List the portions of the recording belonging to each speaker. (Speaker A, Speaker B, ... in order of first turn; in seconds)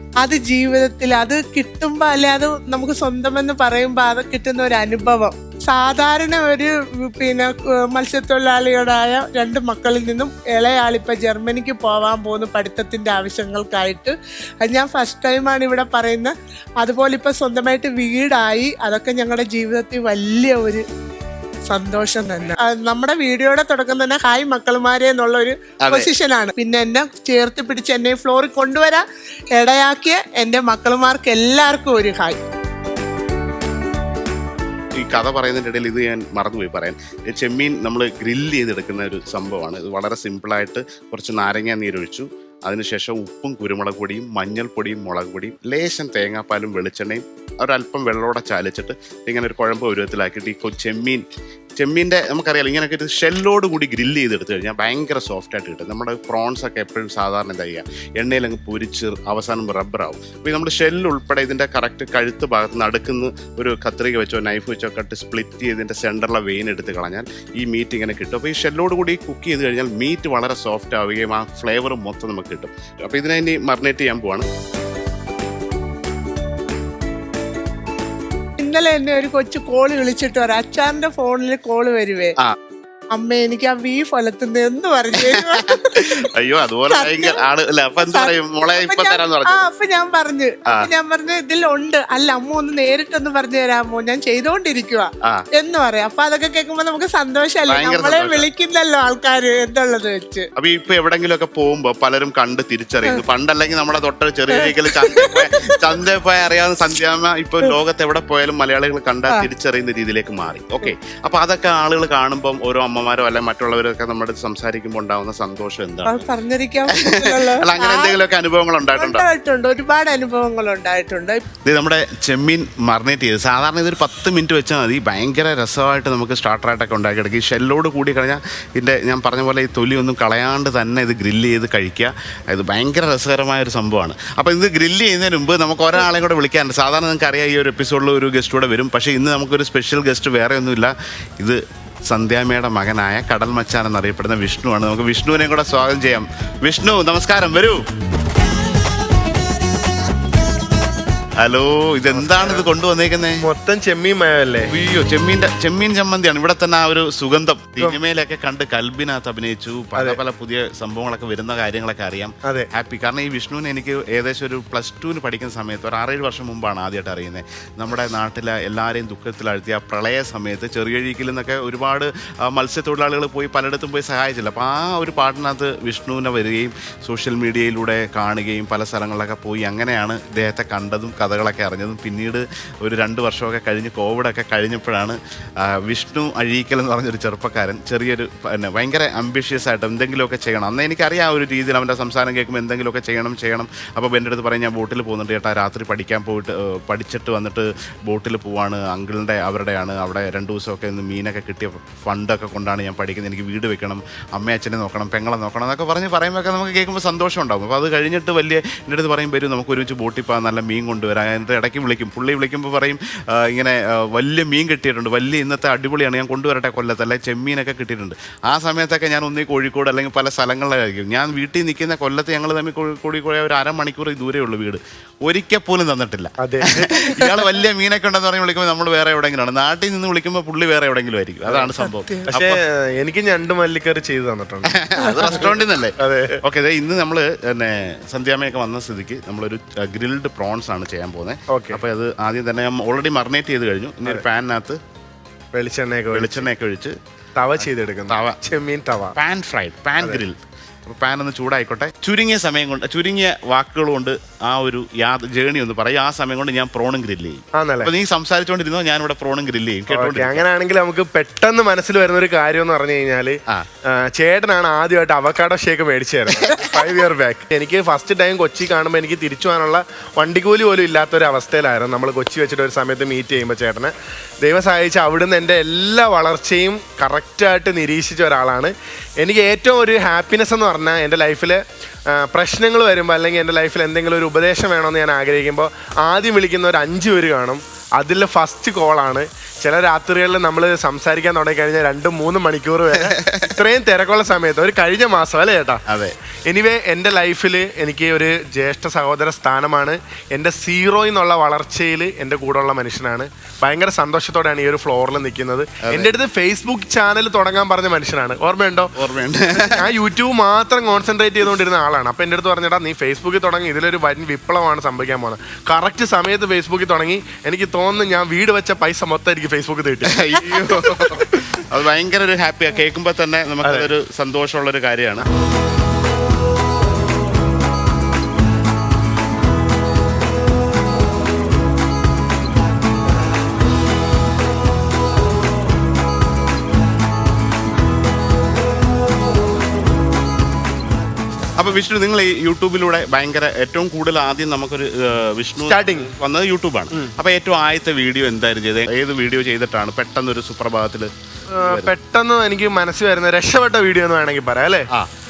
Speaker A: 0.2-20.8, 21.7-29.0, 29.6-32.4, 78.6-82.3, 83.1-86.2, 86.9-87.4, 88.0-100.5, 104.5-105.8, 116.0-118.2, 119.0-121.5, 231.8-232.3, 235.0-235.4, 266.5-266.8
Speaker B: 25.8-26.1, 34.9-51.2, 51.8-74.5, 85.2-89.6, 97.7-98.5, 100.5-116.3, 116.9-119.2, 121.7-147.8, 151.4-153.4, 154.7-185.2, 185.8-232.6, 234.7-244.8, 246.1-246.9, 248.1-248.4, 249.2-260.4, 292.9-293.6, 295.9-296.1, 305.8-306.1, 308.9-309.9, 320.0-325.2, 341.6-351.9
Speaker C: 152.1-152.7, 153.4-154.7, 226.4-226.9, 232.3-236.4, 241.5-241.8, 245.5-246.5, 247.4-249.1, 257.6-257.9, 259.9-295.8, 296.4-308.9, 309.6-321.3, 323.6-323.9, 345.6-346.1, 351.5-354.9